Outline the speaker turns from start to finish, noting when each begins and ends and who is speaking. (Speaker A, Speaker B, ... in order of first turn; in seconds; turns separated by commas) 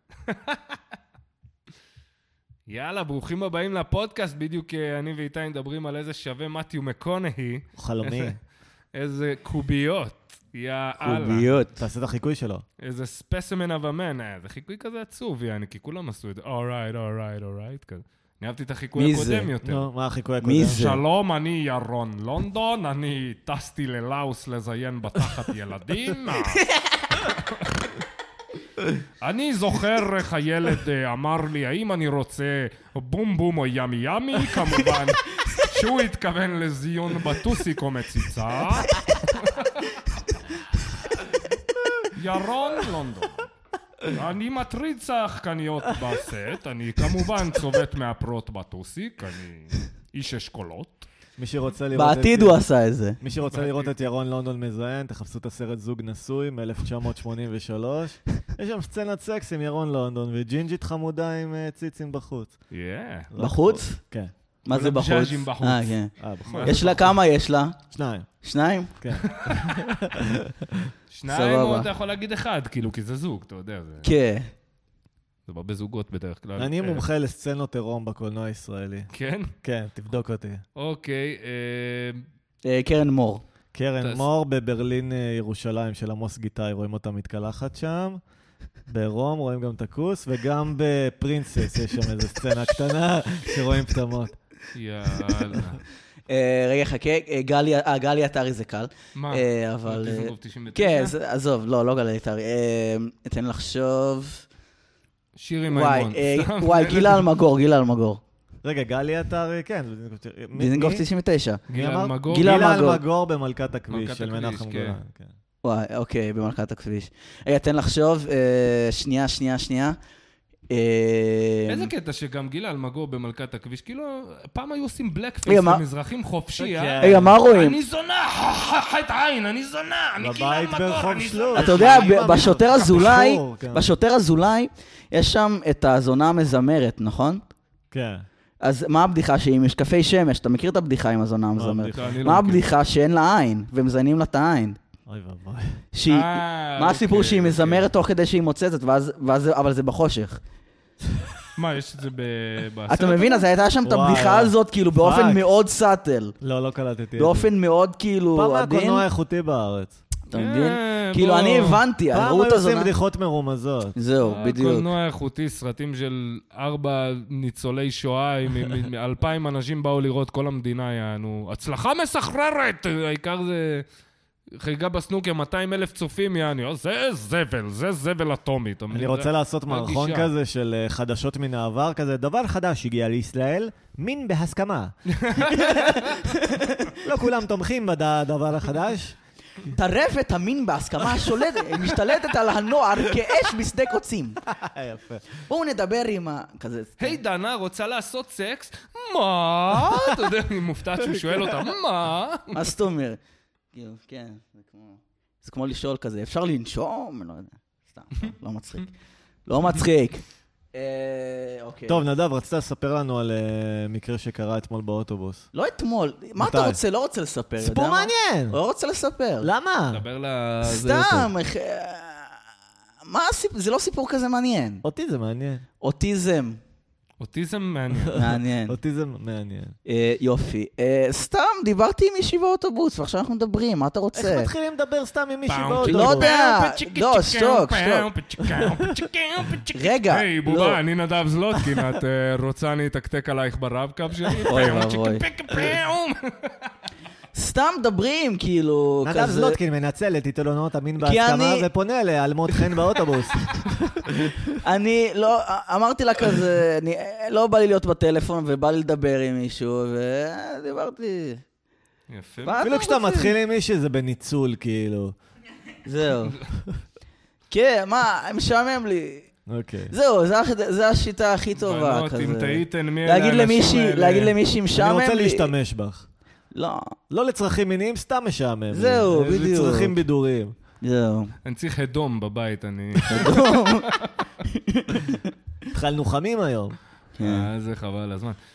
Speaker A: 0.3-0.6, Speaker A: 2.7-8.3, Speaker B: 7.8-8.4, Speaker A: 8.9-11.5, Speaker C: 11.0-11.8, Speaker B: 11.8-12.6, Speaker A: 12.8-19.9, Speaker C: 18.9-19.5, Speaker B: 19.6-20.9, Speaker C: 20.4-21.0, Speaker A: 20.7-27.9, Speaker A: 29.2-40.0, Speaker A: 42.1-43.5, Speaker A: 44.1-51.1, Speaker B: 51.4-52.6, Speaker C: 51.9-53.2, Speaker B: 53.2-62.6, Speaker A: 53.5-53.9, Speaker A: 62.7-63.3, Speaker B: 63.3-64.3, Speaker C: 63.4-64.0, Speaker C: 64.6-67.8, Speaker A: 64.7-67.1, Speaker B: 66.2-67.1, Speaker B: 67.9-68.3, Speaker C: 68.4-68.9, Speaker B: 69.0-70.9, Speaker A: 69.2-69.9, Speaker A: 71.1-74.1, Speaker C: 71.3-71.9, Speaker C: 74.0-74.5, Speaker A: 75.5-77.0, Speaker B: 76.6-79.1, Speaker A: 79.1-79.5, Speaker B: 79.6-80.6, Speaker A: 80.8-82.2, Speaker C: 82.6-83.4, Speaker B: 83.7-88.2, Speaker B: 88.9-94.3, Speaker A: 94.7-95.8, Speaker C: 96.3-104.5, Speaker A: 99.1-101.1, Speaker A: 105.4-107.3, Speaker C: 105.7-108.2, Speaker B: 108.6-111.0, Speaker C: 110.5-111.6, Speaker B: 111.7-115.3, Speaker A: 111.7-112.6, Speaker C: 112.3-113.0, Speaker A: 113.9-114.9, Speaker C: 115.6-120.0, Speaker C: 120.7-121.9, Speaker A: 121.7-133.2, Speaker C: 125.5-125.8, Speaker B: 126.6-127.3, Speaker C: 127.0-127.8, Speaker B: 130.2-133.8, Speaker C: 131.6-137.4, Speaker B: 137.9-138.2, Speaker C: 138.6-144.8, Speaker B: 141.6-142.2, Speaker A: 141.9-142.6, Speaker B: 145.1-145.8, Speaker C: 145.9-150.4, Speaker A: 146.1-147.8, Speaker A: 151.6-153.4, Speaker C: 152.9-156.3, Speaker B: 153.8-155.4, Speaker B: 156.4-157.5, Speaker C: 157.2-159.0, Speaker B: 158.3-160.0, Speaker C: 160.3-162.9, Speaker A: 160.3-161.8, Speaker B: 162.1-163.9, Speaker C: 163.9-164.9, Speaker A: 164.2-173.8, Speaker A: 174.5-180.3, Speaker B: 178.9-184.9, Speaker A: 185.1-186.3, Speaker C: 185.4-186.9, Speaker B: 186.9-189.2, Speaker C: 189.7-194.4, Speaker B: 191.2-191.9, Speaker B: 194.4-195.4, Speaker C: 195.4-197.2, Speaker A: 197.0-202.6, Speaker B: 199.9-200.2, Speaker B: 201.0-201.7, Speaker C: 202.5-203.2, Speaker C: 203.7-208.9, Speaker C: 209.5-210.2, Speaker C: 210.7-212.0, Speaker B: 211.9-215.4, Speaker C: 215.5-219.5, Speaker B: 216.4-216.8, Speaker B: 217.6-218.6, Speaker B: 219.4-220.0, Speaker A: 219.9-221.3, Speaker C: 220.6-222.3, Speaker C: 223.1-224.8, Speaker B: 224.8-225.6, Speaker C: 225.8-226.6, Speaker A: 227.2-228.2, Speaker B: 228.0-229.8, Speaker C: 228.1-228.8, Speaker C: 229.8-234.5, Speaker B: 234.1-236.3, Speaker A: 235.5-246.5, Speaker C: 235.8-238.1, Speaker C: 239.7-240.8, Speaker C: 244.5-245.2, Speaker C: 247.3-249.6, Speaker B: 249.0-254.5, Speaker C: 251.0-251.7, Speaker C: 254.6-261.4, Speaker A: 262.1-262.7, Speaker C: 262.4-263.3, Speaker B: 262.6-265.1, Speaker C: 265.9-266.4, Speaker C: 267.5-269.3, Speaker B: 269.5-269.9, Speaker C: 269.9-275.5, Speaker A: 271.6-274.3, Speaker B: 274.8-276.1, Speaker C: 276.5-276.9, Speaker B: 277.1-280.5, Speaker C: 278.7-279.9, Speaker C: 280.8-281.3, Speaker A: 281.4-284.1, Speaker C: 283.1-283.9, Speaker C: 284.4-285.3, Speaker B: 285.7-286.8, Speaker C: 287.2-287.5, Speaker A: 287.2-288.4